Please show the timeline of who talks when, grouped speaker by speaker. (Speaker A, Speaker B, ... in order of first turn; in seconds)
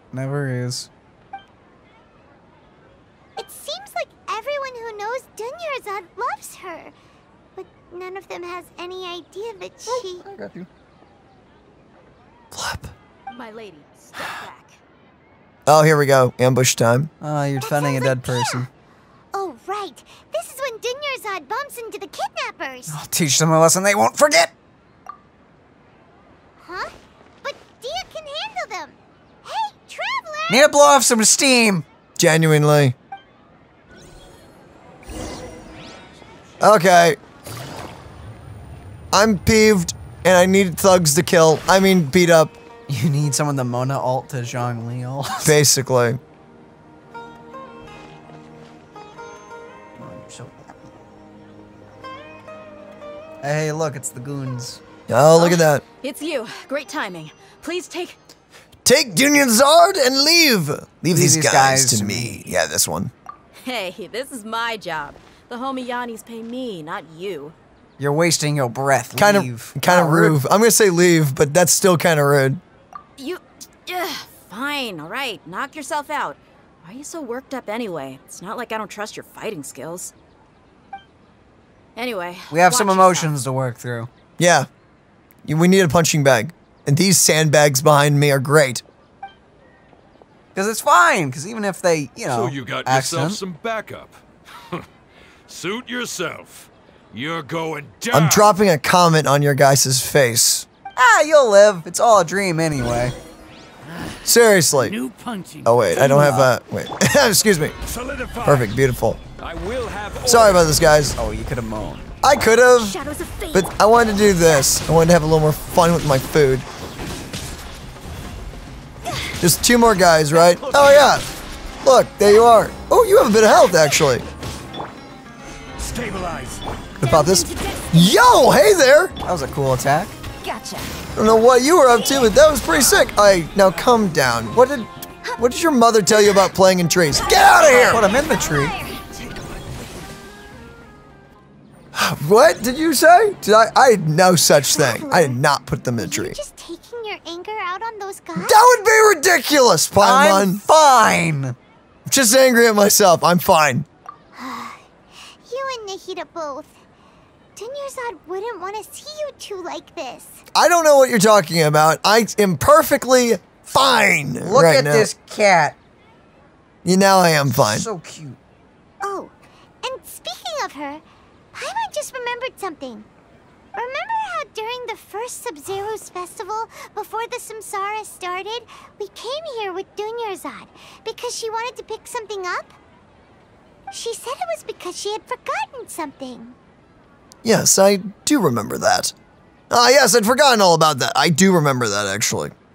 Speaker A: 0.1-0.9, 9.9-10.7, 17.2-18.7, 22.9-24.5, 30.5-31.8, 42.9-45.5, 50.0-50.9, 53.4-54.8, 61.1-62.4, 68.0-70.4, 82.5-84.1, 90.5-93.4, 101.0-103.1, 106.0-106.5, 111.2-112.1, 129.2-130.2, 137.7-138.8, 150.0-151.6, 164.4-165.8, 167.5-168.4
Speaker B: 3.4-6.9, 7.5-10.2, 17.6-18.7, 19.3-22.9, 26.6-30.7, 144.7-145.4, 146.0-148.6, 154.3-154.8, 155.4-156.8, 157.6-160.4, 169.0-173.1, 173.7-182.8, 183.9-186.6
Speaker C: 12.5-12.9, 15.7-17.1, 32.2-33.0, 36.6-37.2, 39.1-42.6, 45.4-46.2, 55.1-55.8, 58.8-63.1, 69.2-72.6, 84.4-84.7, 85.5-88.8, 98.1-100.7, 104.2-105.0, 105.6-107.8, 108.4-109.2, 110.2-111.2, 112.2-113.0, 113.5-116.7, 119.4-121.2, 121.8-124.2, 127.0-129.1, 131.1-138.1, 141.9-146.4, 148.3-150.6, 152.1-153.9, 160.5-165.1, 166.8-167.9, 187.4-189.1, 189.7-192.5
Speaker D: 13.3-14.8, 55.3-58.2, 63.5-67.5, 73.2-80.1, 82.0-83.3, 112.8-113.5, 120.8-121.0, 127.1-127.4, 130.4-130.8
Speaker E: 92.3-94.8, 95.5-98.5, 107.8-108.8, 109.4-111.1, 125.8-126.6